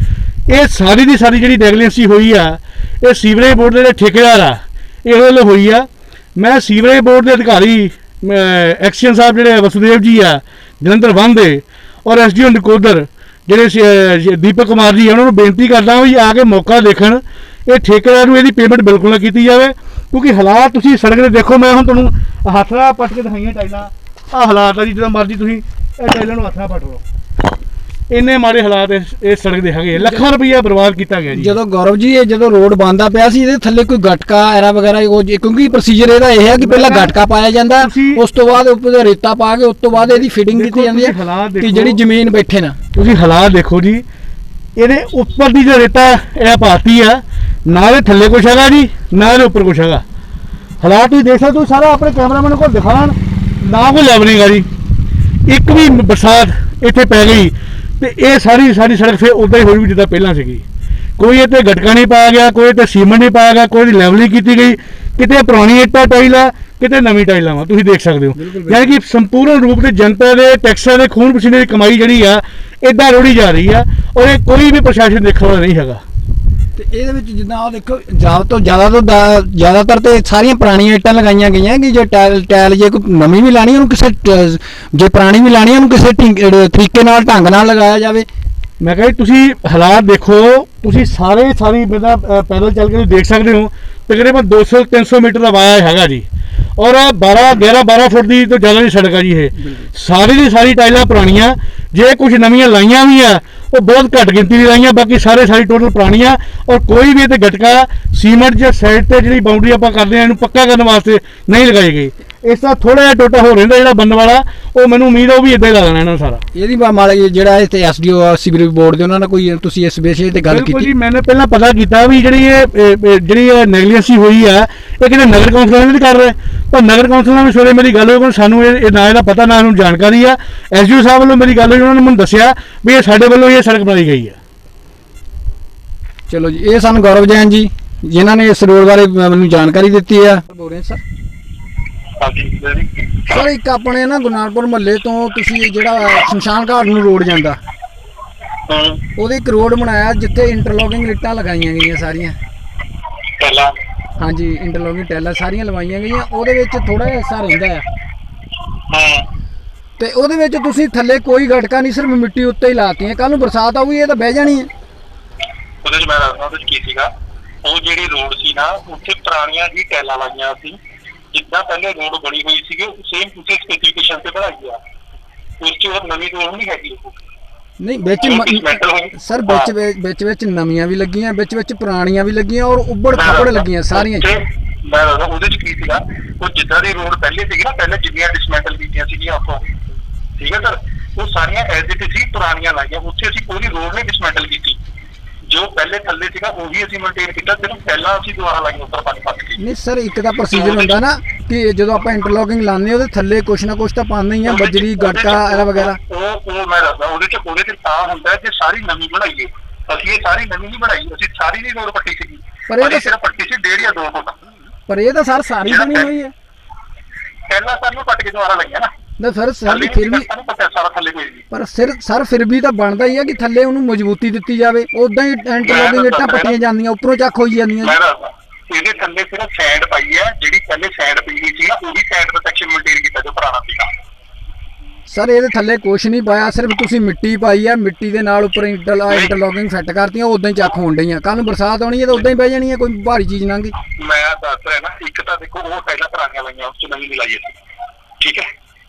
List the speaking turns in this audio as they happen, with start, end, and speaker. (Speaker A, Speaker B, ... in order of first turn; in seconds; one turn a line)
Speaker A: 0.5-27.0
Speaker A: 28.1-31.6
Speaker B: 29.9-30.2
Speaker B: 31.3-42.8
Speaker A: 36.5-37.1
Speaker A: 37.8-38.2
Speaker A: 40.0-42.0
Speaker A: 42.9-44.0
Speaker A: 44.8-50.0
Speaker A: 50.8-54.7
Speaker A: 55.5-60.6
Speaker A: 61.2-76.0
Speaker B: 68.3-69.0
Speaker B: 76.7-88.3
Speaker A: 88.8-96.2
Speaker A: 96.8-116.4
Speaker B: 99.6-99.9
Speaker B: 116.5-120.9
Speaker A: 120.5-134.4
Speaker B: 136.3-141.0
Speaker C: 142.2-142.9
Speaker B: 143.3-147.6
Speaker C: 148.7-149.0
Speaker B: 149.2-152.3
Speaker C: 153.4-153.7
Speaker B: 154.2-157.8
Speaker C: 158.9-159.2
Speaker B: 160.0-164.7
Speaker C: 165.8-167.1
Speaker C: 167.6-170.8
Speaker C: 171.3-174.8
Speaker C: 175.6-177.2
Speaker B: 177.8-184.3
Speaker C: 178.2-179.7
Speaker C: 183.1-189.7
Speaker C: 190.4-194.8
Speaker C: 195.5-199.6
Speaker B: 199.6-206.0
Speaker C: 200.5-201.0
Speaker C: 204.4-214.4
Speaker B: 212.7-213.1
Speaker B: 214.9-216.3
Speaker C: 215.6-216.1
Speaker C: 217.5-218.9
Speaker B: 219.2-220.3
Speaker C: 219.6-221.4
Speaker B: 221.5-228.0
Speaker C: 225.6-226.6
Speaker C: 227.8-233.9
Speaker B: 235.1-243.7
Speaker C: 239.1-239.3
Speaker C: 243.9-247.5
Speaker C: 248.2-248.5